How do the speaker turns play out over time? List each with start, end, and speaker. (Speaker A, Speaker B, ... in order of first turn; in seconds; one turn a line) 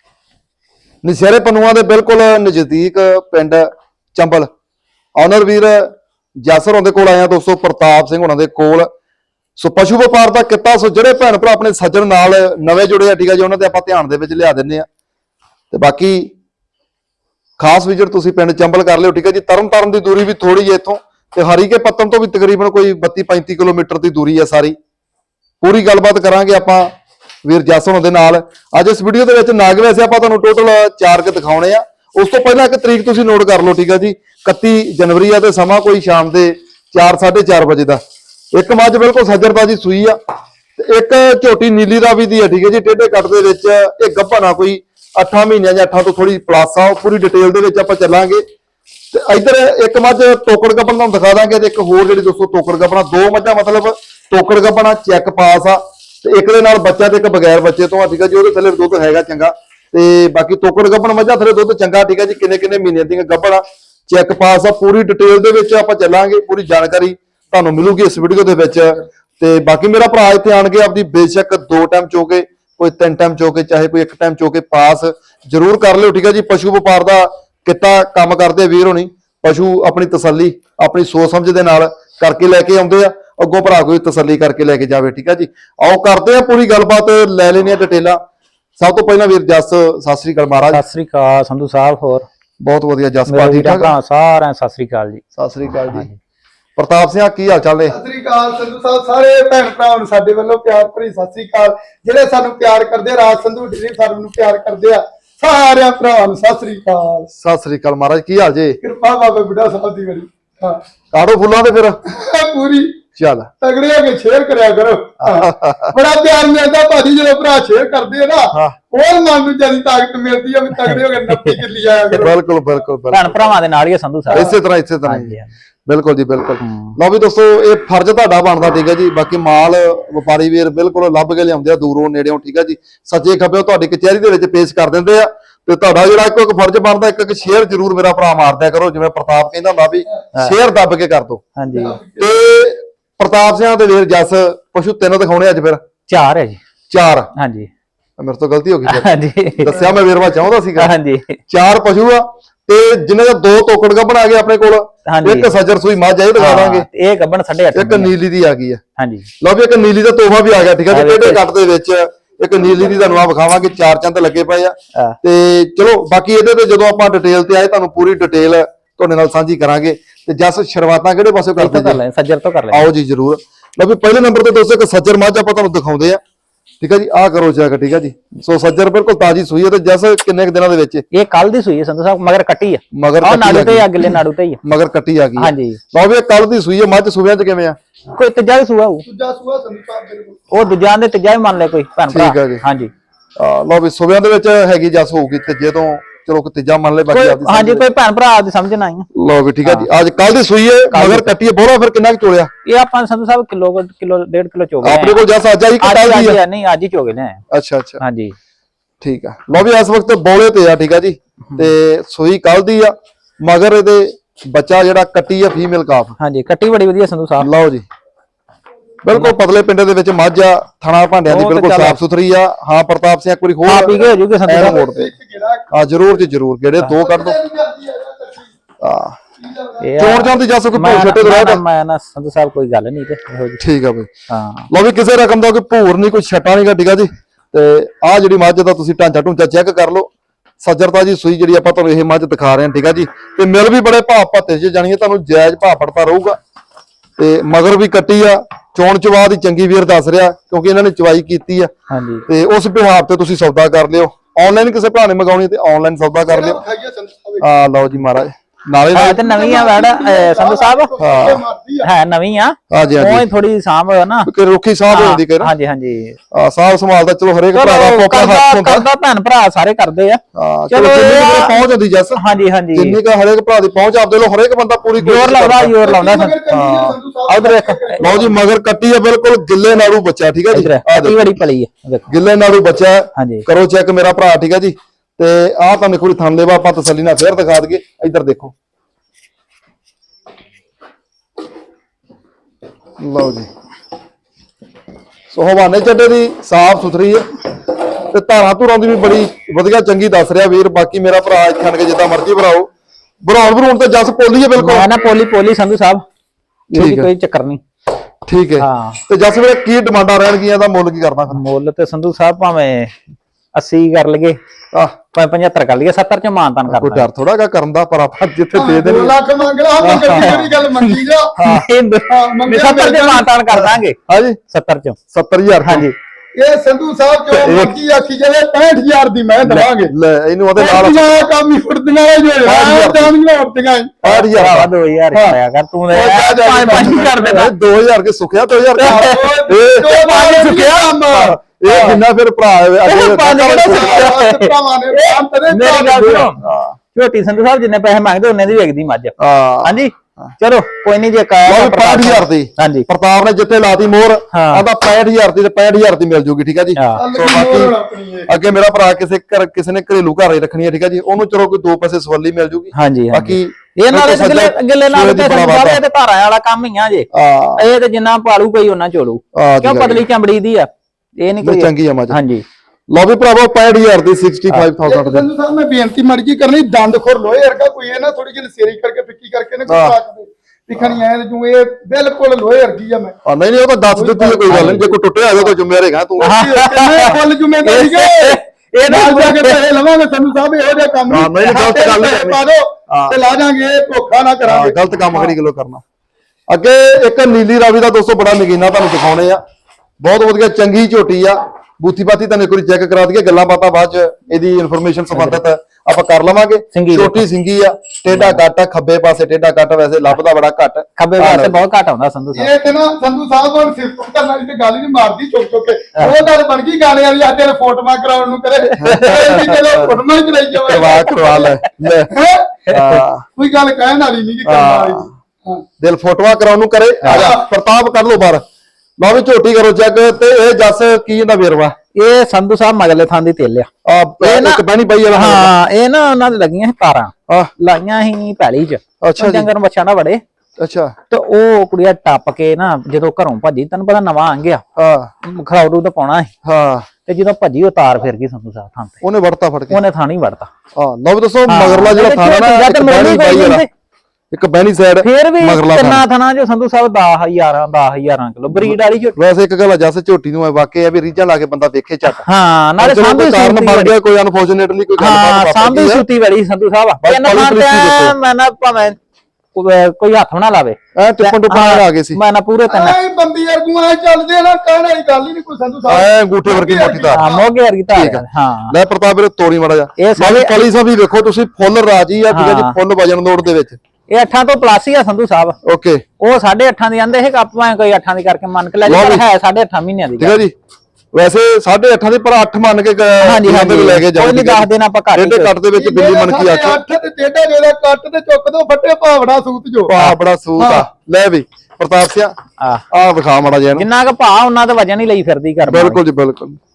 Speaker A: 1.0-4.5
Speaker A: 5.2-8.9
Speaker A: 9.6-14.9
Speaker A: 15.7-16.3
Speaker A: 17.6-24.8
Speaker A: 25.6-26.9
Speaker A: 27.4-38.0
Speaker A: 38.5-40.2
Speaker A: 40.8-48.4
Speaker A: 49.1-88.2
Speaker A: 88.8-90.8
Speaker B: 90.7-92.3
Speaker A: 92.6-93.9
Speaker B: 93.3-95.2
Speaker A: 95.3-96.1
Speaker A: 96.8-98.0
Speaker C: 97.9-107.3
Speaker A: 107.3-108.8
Speaker C: 108.8-110.8
Speaker A: 111.1-112.0
Speaker C: 112.1-113.0
Speaker A: 113.2-113.5
Speaker C: 113.6-122.3
Speaker A: 115.2-116.0
Speaker B: 120.7-121.6
Speaker A: 122.1-123.4
Speaker B: 123.1-124.5
Speaker A: 124.3-125.3
Speaker B: 125.0-125.5
Speaker A: 125.9-141.4
Speaker B: 126.6-127.0
Speaker B: 141.6-142.0
Speaker C: 141.7-142.3
Speaker A: 142.2-145.8
Speaker B: 146.1-146.6
Speaker A: 146.9-147.3
Speaker B: 147.4-147.7
Speaker A: 148.2-150.9
Speaker B: 148.9-149.8
Speaker B: 150.8-151.4
Speaker A: 151.5-156.9
Speaker B: 155.1-155.5
Speaker B: 156.4-158.1
Speaker A: 157.8-158.8
Speaker B: 159.0-159.3
Speaker A: 159.4-172.0
Speaker B: 160.9-161.4
Speaker B: 171.6-172.9
Speaker A: 172.7-176.2
Speaker A: 176.8-181.0
Speaker B: 181.1-184.6
Speaker A: 182.9-184.0
Speaker A: 184.6-187.8
Speaker B: 185.4-185.8
Speaker B: 188.2-189.1
Speaker C: 189.1-190.4
Speaker B: 190.5-192.9
Speaker A: 192.1-192.6
Speaker A: 193.4-197.9
Speaker B: 197.1-199.1
Speaker A: 199.1-202.5
Speaker B: 199.6-199.9
Speaker B: 200.9-201.3
Speaker B: 202.7-205.2
Speaker A: 204.8-206.4
Speaker B: 205.8-207.4
Speaker A: 207.5-208.0
Speaker B: 208.0-208.3
Speaker A: 209.0-216.2
Speaker B: 216.2-217.5
Speaker A: 217.4-217.9
Speaker A: 219.0-225.1
Speaker B: 221.3-222.0
Speaker B: 223.7-224.8
Speaker C: 223.9-225.7
Speaker A: 225.7-227.4
Speaker C: 227.0-228.5
Speaker A: 228.8-229.2
Speaker C: 229.4-230.0
Speaker B: 229.8-233.6
Speaker A: 230.0-231.6
Speaker A: 233.6-234.1
Speaker B: 234.3-234.7
Speaker A: 234.7-246.4
Speaker A: 247.2-251.7
Speaker B: 251.9-252.2
Speaker A: 252.3-256.6
Speaker C: 256.3-257.5
Speaker A: 257.4-259.3
Speaker B: 258.9-260.9
Speaker C: 259.2-261.9
Speaker A: 261.0-261.4
Speaker B: 261.8-264.3
Speaker A: 262.7-263.2
Speaker A: 264.3-265.5
Speaker B: 264.9-266.2
Speaker A: 266.3-268.9
Speaker B: 267.5-271.6
Speaker A: 270.4-272.2
Speaker B: 272.1-273.0
Speaker A: 272.7-275.8
Speaker B: 275.0-276.4
Speaker C: 275.8-278.4
Speaker A: 276.5-277.0
Speaker B: 277.3-278.1
Speaker A: 278.0-281.3
Speaker B: 280.5-282.1
Speaker A: 282.1-288.5
Speaker B: 283.2-283.4
Speaker A: 293.0-293.5
Speaker A: 295.3-297.3
Speaker A: 298.1-302.7
Speaker A: 303.2-304.9
Speaker B: 304.6-306.0
Speaker A: 306.7-307.1
Speaker B: 306.7-307.6
Speaker A: 308.3-311.4
Speaker B: 308.6-309.0
Speaker B: 311.3-312.9
Speaker B: 313.6-314.4
Speaker B: 315.1-317.1
Speaker A: 316.7-319.1
Speaker C: 318.5-321.3
Speaker A: 319.8-320.5
Speaker B: 320.1-325.0
Speaker A: 321.4-321.6
Speaker C: 322.1-323.3
Speaker A: 323.5-324.4
Speaker A: 325.1-325.9
Speaker B: 325.6-325.9
Speaker C: 326.4-329.9
Speaker A: 327.4-327.7
Speaker B: 327.5-327.7
Speaker A: 329.4-331.1
Speaker C: 330.6-334.1
Speaker A: 332.4-333.1
Speaker A: 334.0-335.4
Speaker B: 334.1-337.5
Speaker C: 335.9-337.3
Speaker A: 336.0-340.4
Speaker B: 338.8-339.3
Speaker C: 338.8-341.4
Speaker B: 339.9-342.0
Speaker A: 341.6-344.1
Speaker B: 342.9-346.4
Speaker C: 343.6-346.3
Speaker A: 346.4-346.8
Speaker B: 346.9-352.9
Speaker A: 349.2-350.3
Speaker A: 351.5-357.7
Speaker B: 354.3-354.6
Speaker B: 356.8-357.0
Speaker C: 357.0-358.3
Speaker A: 358.3-365.8
Speaker B: 362.7-372.4
Speaker A: 367.1-367.6
Speaker A: 369.4-370.1
Speaker A: 371.4-372.2
Speaker A: 372.9-375.2
Speaker C: 374.9-383.2
Speaker A: 379.7-380.0
Speaker A: 383.2-386.4
Speaker C: 383.9-384.6
Speaker B: 384.5-384.9
Speaker C: 386.2-395.4
Speaker B: 386.2-389.6
Speaker A: 391.1-393.2
Speaker A: 394.5-395.8
Speaker A: 396.5-399.4
Speaker A: 400.0-411.6
Speaker B: 405.1-405.4
Speaker B: 406.7-407.2
Speaker B: 408.1-408.4
Speaker B: 411.0-412.5
Speaker C: 412.3-421.6
Speaker B: 418.7-419.6
Speaker A: 418.8-419.9
Speaker A: 420.7-422.1
Speaker C: 422.1-422.6
Speaker B: 422.7-423.0
Speaker A: 422.7-423.2
Speaker C: 423.4-425.6
Speaker A: 424.4-425.1
Speaker A: 425.8-428.4
Speaker C: 427.1-427.5
Speaker A: 429.0-431.8
Speaker B: 431.9-433.7
Speaker A: 433.9-435.5
Speaker B: 434.2-440.2
Speaker A: 439.0-439.5
Speaker A: 440.6-440.9
Speaker B: 441.1-444.6
Speaker A: 444.8-445.1
Speaker B: 445.2-446.3
Speaker A: 446.4-446.9
Speaker B: 447.1-449.0
Speaker A: 449.0-449.8
Speaker B: 449.7-450.5
Speaker A: 450.8-453.6
Speaker B: 451.5-453.7
Speaker A: 454.3-456.0
Speaker B: 455.0-459.2
Speaker A: 458.5-462.3
Speaker B: 462.2-463.9
Speaker A: 462.8-466.0
Speaker B: 465.0-469.0
Speaker A: 467.0-468.1
Speaker B: 469.6-473.0
Speaker A: 470.9-472.2
Speaker C: 472.7-477.5
Speaker A: 475.9-477.3
Speaker B: 477.1-478.8
Speaker A: 477.9-483.8
Speaker B: 480.0-480.6
Speaker B: 482.3-482.8
Speaker B: 484.1-485.6
Speaker A: 485.6-486.0
Speaker B: 486.2-490.4
Speaker A: 488.8-489.2
Speaker A: 490.2-490.5
Speaker A: 491.1-496.8
Speaker B: 493.2-495.5
Speaker C: 495.8-499.9
Speaker A: 499.9-502.3
Speaker B: 500.0-500.9
Speaker A: 502.9-503.9
Speaker B: 503.8-506.0
Speaker A: 505.6-506.6